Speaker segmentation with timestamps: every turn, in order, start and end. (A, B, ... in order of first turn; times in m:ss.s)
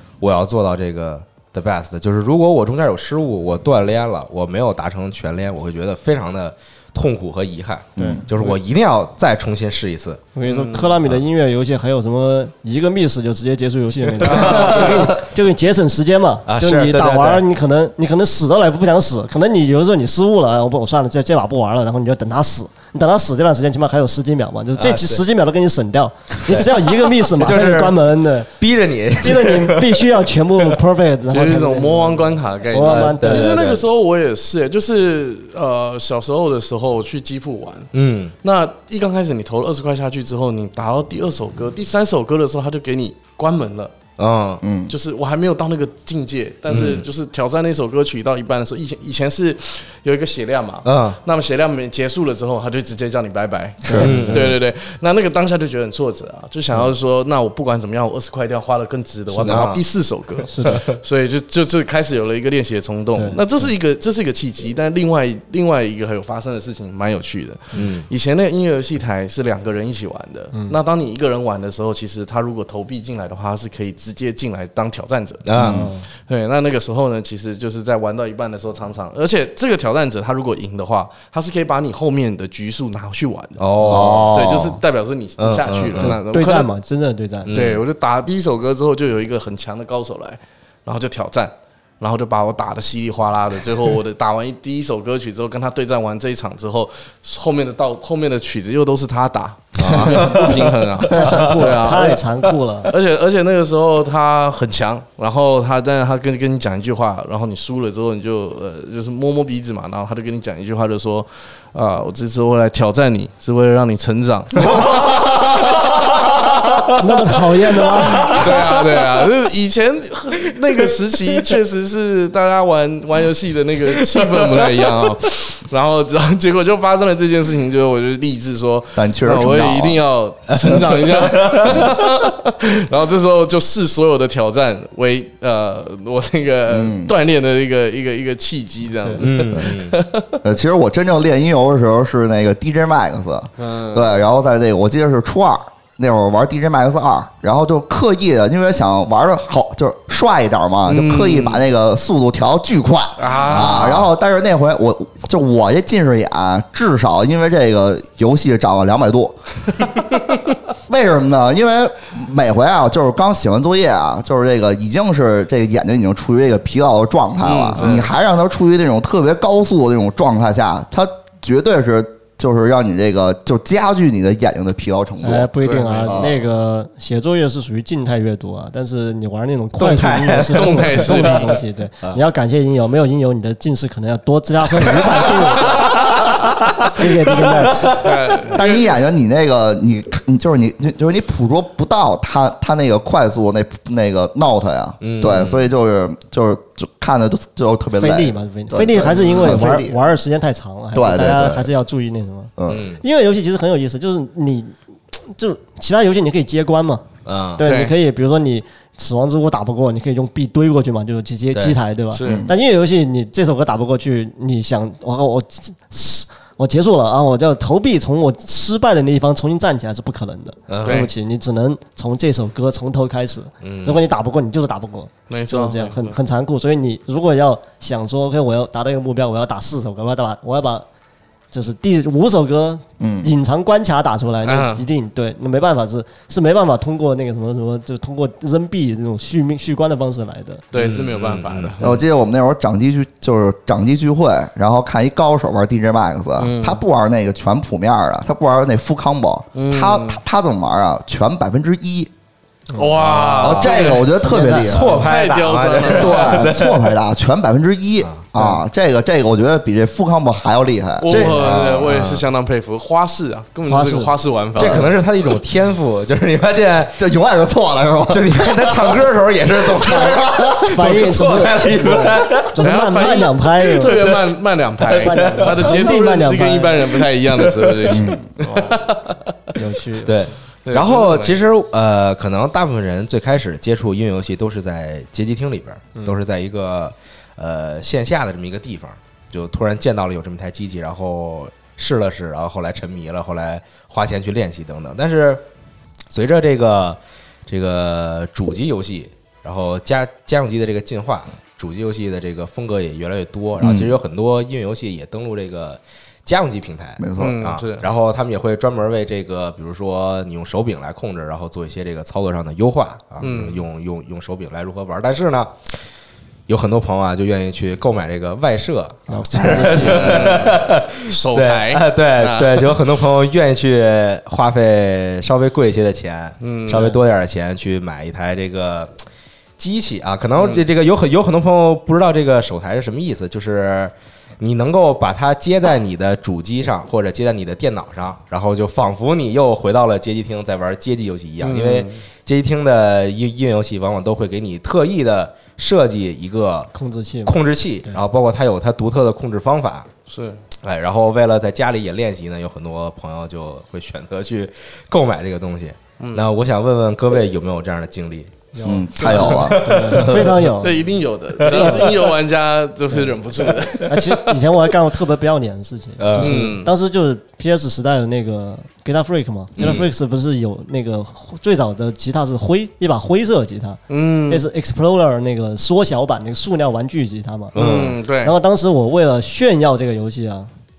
0:00.2-0:10.3 A
0:08.0-0:08.2 B
0:08.0-0:08.6 C
0:10.4-0:28.5 C
0:10.4-0:10.9 D
0:14.2-0:15.1 A
0:16.4-0:17.4 A
0:24.8-0:25.2 A
0:26.5-0:28.0 A
0:28.6-0:30.7 A
0:29.2-0:33.7 C
0:31.3-0:37.9 D
0:32.7-0:33.8 A
0:37.9-0:38.3 A
0:38.4-0:44.0 D
0:44.2-0:44.6 A
0:44.6-0:44.9 B
0:44.9-1:15.5 D
0:46.7-0:47.0 A
0:50.8-0:51.2 A
0:53.8-0:54.1 B
0:53.9-0:54.5 C
0:53.9-0:54.6 A
0:59.3-0:59.6 C
0:59.4-0:59.8 A
1:00.5-1:00.8 C
1:03.1-1:03.7 C
1:07.7-1:08.1 A
1:15.4-1:15.8 A
1:15.5-1:15.9 B
1:15.7-1:16.1 C
1:16.2-1:26.7 D
1:23.6-1:24.6 A
1:23.9-1:24.8 B
1:25.4-1:26.2 A
1:26.0-1:27.6 C
1:27.4-1:27.8 A
1:27.5-1:56.9 D
1:39.8-1:41.7 A
1:39.9-1:40.2 B
1:41.1-1:42.9 C
1:57.0-1:58.4 C
1:58.1-1:58.9 A
1:58.3-2:20.4 D
2:04.1-2:05.0 A
2:08.9-2:10.0 B
2:10.5-2:12.1 A
2:16.7-2:17.1 B
2:19.2-2:19.9 A
2:20.4-2:40.1 B
2:23.6-2:24.1 D
2:30.8-2:31.6 D
2:33.2-2:34.1 D
2:33.4-2:34.0 A
2:40.9-2:55.5 B
2:47.4-2:48.1 D
2:55.2-3:06.0 C
2:55.6-2:56.4 D
2:56.0-2:56.3 B
2:59.8-3:02.2 A
3:00.5-3:01.6 D
3:04.9-3:08.2 A
3:06.9-3:08.0 C
3:08.0-3:09.0 D
3:08.5-3:20.0 B
3:15.0-3:15.7 A
3:18.0-3:27.0 C
3:20.9-3:21.7 B
3:22.6-3:22.8 B
3:22.7-3:23.0 A
3:27.2-3:27.6 A
3:27.6-3:50.8 C
3:27.6-3:27.9 D
3:31.5-3:31.8 A
3:32.1-3:32.4 D
3:32.2-3:32.5 B
3:40.7-3:41.1 A
3:40.8-3:41.1 D
3:43.6-3:44.0 A
3:45.3-3:46.2 D
3:51.5-4:00.6 C
3:53.0-3:53.3 B
3:54.4-3:54.8 D
4:00.7-4:01.9 D
4:00.7-4:01.8 A
4:01.8-4:12.1 B
4:06.4-4:06.8 D
4:09.5-4:10.2 D
4:12.7-4:14.1 D
4:12.9-4:17.0 A
4:13.4-4:15.0 B
4:14.1-4:15.1 C
4:15.0-4:16.4 D
4:15.9-4:21.9 B
4:18.0-4:18.3 A
4:21.0-4:25.0 D
4:21.1-4:22.2 A
4:23.7-4:24.1 C
4:24.5-4:27.0 A
4:27.0-4:30.8 B
4:28.1-4:32.8 A
4:30.6-4:34.1 C
4:32.6-4:39.2 D
4:33.8-4:34.2 A
4:34.8-4:35.8 A
4:35.0-4:36.9 C
4:37.3-4:38.0 A
4:37.9-4:38.3 B
4:39.5-4:40.2 C
4:40.0-4:55.4 A
4:40.6-4:41.4 D
4:56.1-5:15.8 A
5:03.6-5:03.9 B
5:07.0-5:07.4 B
5:07.2-5:07.8 D
5:13.2-5:13.6 D
5:16.5-5:28.9 A
5:19.1-5:20.5 C
5:19.6-5:22.8 D
5:26.4-5:27.0 D
5:29.6-5:46.7 A
5:30.4-5:30.6 D
5:41.4-5:42.0 D
5:46.7-5:48.0 C
5:47.2-5:49.9 A
5:50.1-5:50.4 D
5:50.6-5:58.4 A
5:56.0-5:56.2 D
5:58.5-6:00.8 C
5:58.6-6:00.3 B
5:59.0-6:04.2 D
5:59.0-6:00.8 A
6:01.4-6:02.1 A
6:01.4-6:01.9 C
6:03.5-6:03.8 A
6:03.8-6:17.6 C
6:06.0-6:06.6 A
6:06.2-6:06.7 D
6:09.6-6:09.9 A
6:13.9-6:14.5 D
6:17.5-6:18.0 A
6:17.5-6:18.3 D
6:18.2-6:20.5 C